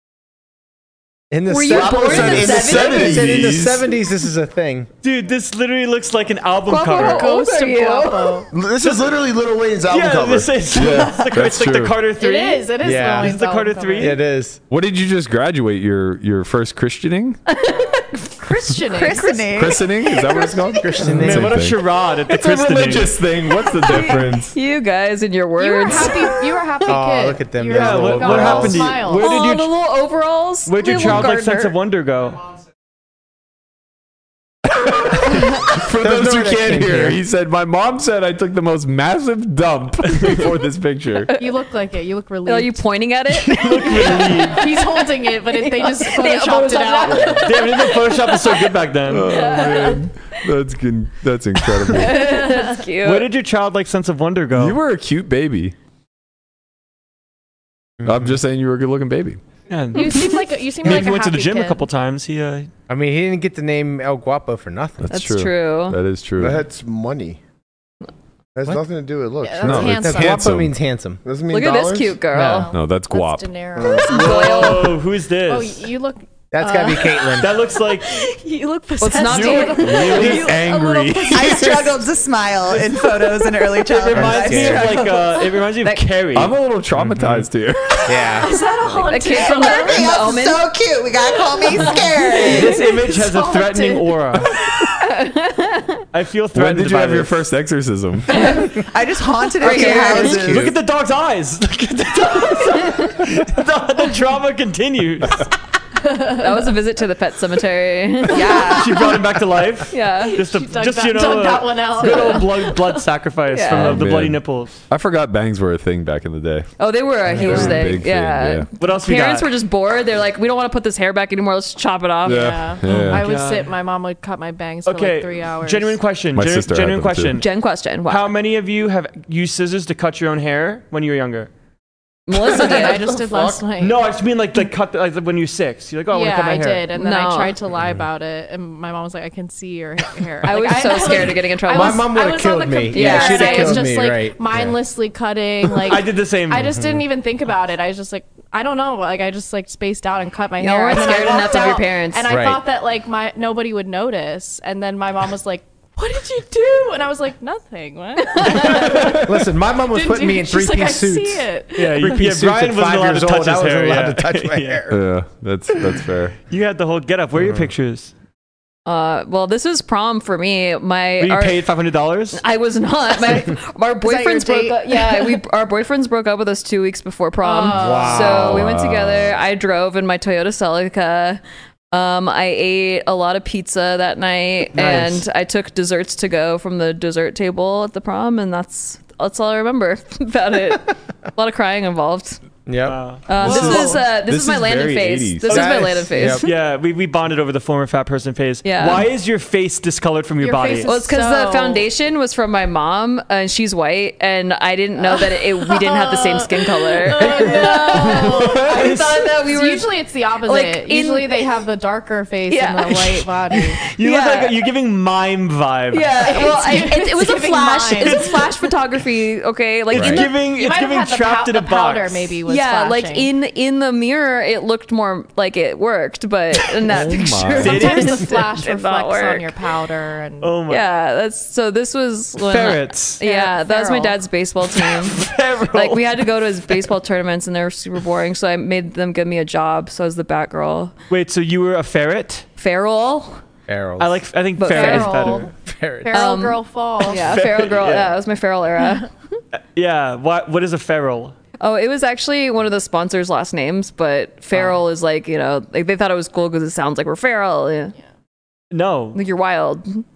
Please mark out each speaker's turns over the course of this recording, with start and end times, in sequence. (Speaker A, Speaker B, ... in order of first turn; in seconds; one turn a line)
Speaker A: 1.3-4.9
Speaker B: 1.5-3.3
Speaker C: 1.7-3.5
Speaker D: 2.1-3.9
Speaker E: 5.0-7.3
Speaker B: 6.7-8.5
Speaker F: 6.9-8.5
Speaker C: 8.5-10.6
Speaker E: 8.8-9.1
Speaker E: 9.9-14.2
Speaker D: 10.7-12.0
Speaker F: 12.2-14.2
Speaker A: 12.8-13.4
Speaker A: 14.0-14.6
Speaker D: 14.7-17.4
Speaker B: 17.5-18.3
Speaker F: 18.4-19.7
Speaker G: 18.8-19.9
Speaker D: 19.5-24.6
Speaker B: 20.1-20.8
Speaker A: 20.8-21.7
Speaker E: 21.1-23.2
Speaker B: 23.5-26.6
Speaker F: 25.6-29.3
Speaker A: 26.9-29.0
Speaker E: 27.6-29.7
Speaker B: 29.1-31.8
Speaker E: 30.7-32.4
Speaker D: 35.0-41.3
Speaker A: 36.0-37.2
Speaker F: 41.4-42.8
Speaker B: 42.5-48.7
Speaker E: 43.5-44.6
Speaker F: 43.9-47.9
Speaker E: 47.3-49.3
Speaker D: 49.1-52.3
Speaker B: 49.2-50.1
Speaker B: 51.9-53.3
Speaker F: 52.0-52.5
Speaker E: 53.0-54.8
Speaker D: 54.5-55.8
Speaker A: 58.0-58.4
Speaker D: 58.0-59.4
Speaker E: 59.7-60.3
Speaker F: 59.9-61.9
Speaker B: 60.0-60.4
Speaker E: 60.8-62.7
Speaker A: 62.9-65.1
Speaker D: 65.0-66.6
Speaker B: 65.1-66.0
Speaker C: 66.4-67.4
Speaker C: 68.5-70.0
Speaker F: 69.4-70.6
Speaker D: 69.6-70.8
Speaker A: 69.7-71.2
Speaker C: 71.2-72.2
Speaker B: 71.5-72.7
Speaker A: 72.3-72.7
Speaker F: 72.4-74.9
Speaker D: 72.7-73.5
Speaker C: 73.8-74.3
Speaker B: 74.0-75.0
Speaker E: 74.1-75.8
Speaker F: 75.5-80.6
Speaker A: 76.5-77.5
Speaker E: 77.4-78.1
Speaker B: 79.0-81.8
Speaker E: 79.3-80.4
Speaker D: 79.4-82.0
Speaker G: 81.3-85.2
Speaker E: 83.9-86.6
Speaker A: 84.1-85.0
Speaker B: 84.9-86.1
Speaker D: 86.3-88.3
Speaker A: 87.0-87.5
Speaker A: 88.1-88.5
Speaker F: 88.4-90.2
Speaker B: 88.4-90.7
Speaker G: 89.4-92.8
Speaker B: 91.7-92.8
Speaker F: 91.8-94.5
Speaker E: 92.4-94.5
Speaker B: 94.9-96.0
Speaker E: 96.1-97.4
Speaker D: 96.5-98.4
Speaker B: 98.3-98.8
Speaker G: 98.7-100.8
Speaker B: 99.6-100.6
Speaker E: 99.8-105.5
Speaker B: 102.7-103.2
Speaker F: 106.0-106.5
Speaker B: 106.3-109.2
Speaker G: 108.3-109.2
Speaker E: 108.6-114.8
Speaker B: 109.9-110.5
Speaker F: 110.2-112.8
Speaker B: 112.0-112.8
Speaker B: 113.5-114.0
Speaker D: 113.7-116.7
Speaker B: 116.8-122.7
Speaker A: 117.3-117.8
Speaker D: 117.3-118.7
Speaker E: 118.8-119.5
Speaker D: 122.2-123.2
Speaker F: 122.2-126.0
Speaker E: 122.9-123.7
Speaker E: 124.8-127.5
Speaker D: 126.3-127.4
Speaker B: 127.3-128.3
Speaker E: 128.1-131.5
Speaker B: 132.3-133.5
Speaker F: 132.4-134.0
Speaker E: 133.8-136.9
Speaker F: 136.1-159.2
Speaker B: 136.9-137.6
Speaker B: 140.4-142.2
Speaker A: 141.7-144.8
Speaker B: 142.9-143.9
Speaker E: 145.8-146.7
Speaker A: 146.6-147.0
Speaker B: 150.6-152.4
Speaker A: 152.3-152.6
Speaker B: 158.3-159.1
Speaker A: 158.7-161.5
Speaker D: 158.9-159.3
Speaker F: 159.9-162.2
Speaker E: 161.8-164.9
Speaker A: 162.0-165.0
Speaker D: 164.9-166.4
Speaker E: 166.5-168.1
Speaker A: 167.4-167.7
Speaker B: 168.9-171.7
Speaker E: 171.2-172.4
Speaker B: 172.3-181.4
Speaker F: 174.0-175.4
Speaker F: 177.4-178.5
Speaker A: 177.7-178.6
Speaker D: 178.4-179.4
Speaker B: 181.9-192.4
Speaker A: 184.8-185.1
Speaker E: 184.8-185.1
Speaker A: 192.7-193.0
Speaker E: 192.8-193.3
Speaker B: 193.3-196.6
Speaker D: 193.4-195.7
Speaker F: 193.4-194.0
Speaker E: 195.5-200.9
Speaker A: 195.5-196.4
Speaker B: 198.6-199.1
Speaker F: 200.4-201.8
Speaker B: 200.8-211.5
Speaker F: 205.0-213.8
Speaker E: 207.2-209.3
Speaker B: 212.5-213.3
Speaker B: 213.8-214.6
Speaker E: 213.9-216.5
Speaker B: 215.9-220.4
Speaker F: 216.2-218.4
Speaker E: 218.0-218.6
Speaker E: 219.9-222.4
Speaker D: 219.9-220.2
Speaker A: 219.9-220.2
Speaker F: 220.4-223.3
Speaker B: 222.4-229.5
Speaker D: 226.9-227.9
Speaker E: 227.6-228.4
Speaker F: 227.6-230.5
Speaker E: 230.4-230.8
Speaker B: 230.7-240.9
Speaker E: 232.4-233.2
Speaker F: 233.2-234.2
Speaker E: 234.8-236.8
Speaker E: 241.1-242.5
Speaker B: 242.6-243.4
Speaker A: 243.7-244.3
Speaker E: 244.0-245.5
Speaker B: 244.6-245.4
Speaker F: 244.7-245.5
Speaker A: 245.5-246.2
Speaker F: 246.1-247.2
Speaker B: 246.1-249.1
Speaker E: 247.1-248.1
Speaker E: 249.8-251.4
Speaker B: 251.6-257.9
Speaker E: 258.7-259.2
Speaker B: 259.1-260.0